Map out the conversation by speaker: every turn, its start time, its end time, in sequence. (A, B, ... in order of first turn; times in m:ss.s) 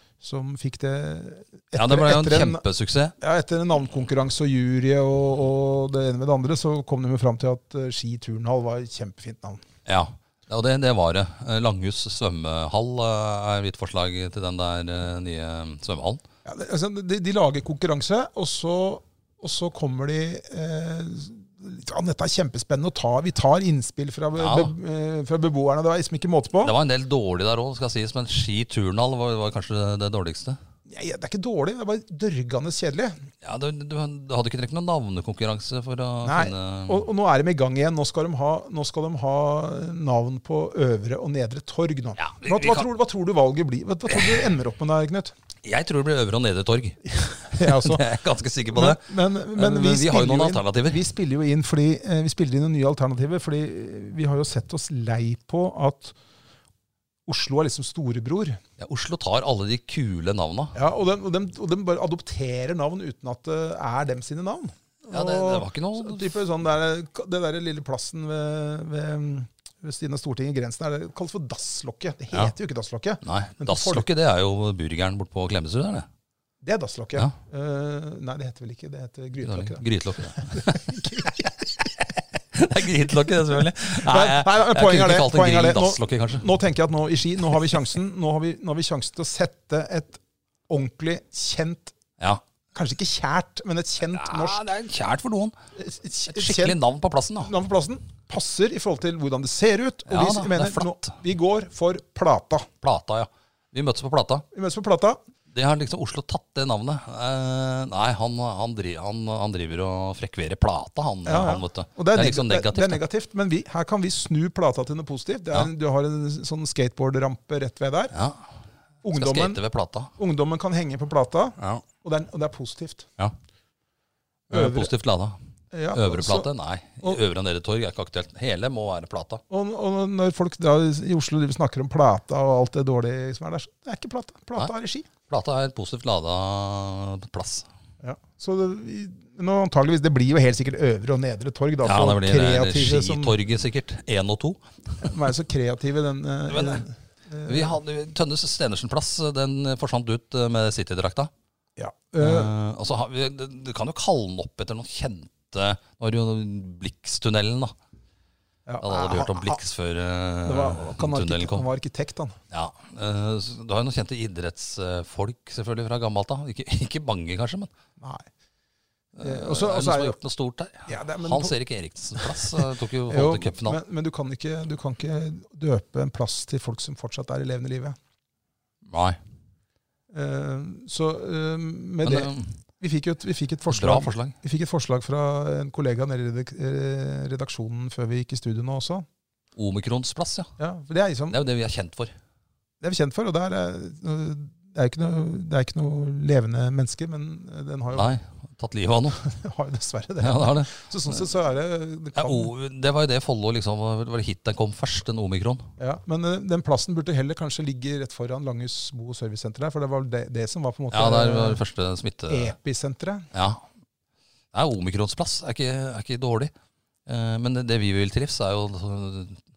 0:00.2-0:02.6 A
0:01.8-0:03.1 B
0:03.2-0:09.6 A
0:09.9-0:16.2 B
0:16.4-0:26.7 A
0:24.4-0:24.7 B
0:26.6-0:30.6 B
0:30.9-0:33.2 A
0:33.4-0:37.0 B
0:36.2-0:45.3 A
0:42.2-0:42.9 B
0:44.1-0:44.4 B
0:45.6-0:49.0 B
0:47.2-0:48.0 A
0:48.7-0:56.2 A
0:49.5-0:51.0 B
0:57.3-0:58.6 A
0:58.8-1:00.8 B
1:00.8-1:14.0 A
1:05.1-1:06.3 B
1:13.2-1:16.1 B
1:16.6-1:19.8 A
1:19.4-1:21.0 B
1:20.4-1:21.6 A
1:22.5-1:26.5 B
1:23.8-1:31.9 A
1:32.7-1:34.6 A
1:34.1-1:35.6 B
1:35.8-1:36.8 A
1:36.3-1:37.5 B
1:37.4-1:42.7 A
1:40.1-1:41.2 B
1:42.8-1:44.4 B
1:44.5-1:45.2 A
1:45.5-1:53.0 B
1:51.3-1:58.1 A
1:58.1-1:58.5 B
1:59.0-1:59.6 A
1:59.1-2:00.1 B
2:00.2-2:03.1 A
2:01.6-2:01.8 B
2:04.5-2:04.9 A
2:04.5-2:05.4 B
2:05.7-2:06.5 A
2:05.9-2:09.4 B
2:09.5-2:15.1 A
2:15.3-2:17.7 B
2:18.0-2:23.4 A
2:21.8-2:25.0 B
2:25.0-2:27.8 A
2:26.5-2:26.8 B
2:27.4-2:31.3 B
2:31.8-2:32.5 A
2:32.2-2:37.7 B
2:38.7-2:39.6 A
2:38.8-2:41.7 B
2:40.4-2:42.4 A
2:42.5-2:47.7 B
2:48.0-2:48.3 A
2:49.2-2:53.8 B
2:49.2-2:50.2 A
2:50.9-2:51.5 A
2:52.2-2:58.0 A
2:58.9-2:59.2 B
3:00.1-3:09.1 A
3:02.0-3:02.6 B
3:03.7-3:04.4 B
3:09.6-3:10.5 B
3:10.6-3:11.4 A
3:11.3-3:12.1 B
3:12.8-3:18.1 A
3:17.9-3:19.2 B
3:19.2-3:22.5 A
3:20.2-3:21.2 B
3:22.2-3:25.7 B
3:25.8-3:31.6 A
3:30.9-3:32.5 B
3:32.3-3:33.3 A
3:33.3-3:33.6 B
3:34.5-3:36.5 B
3:37.1-3:39.4 B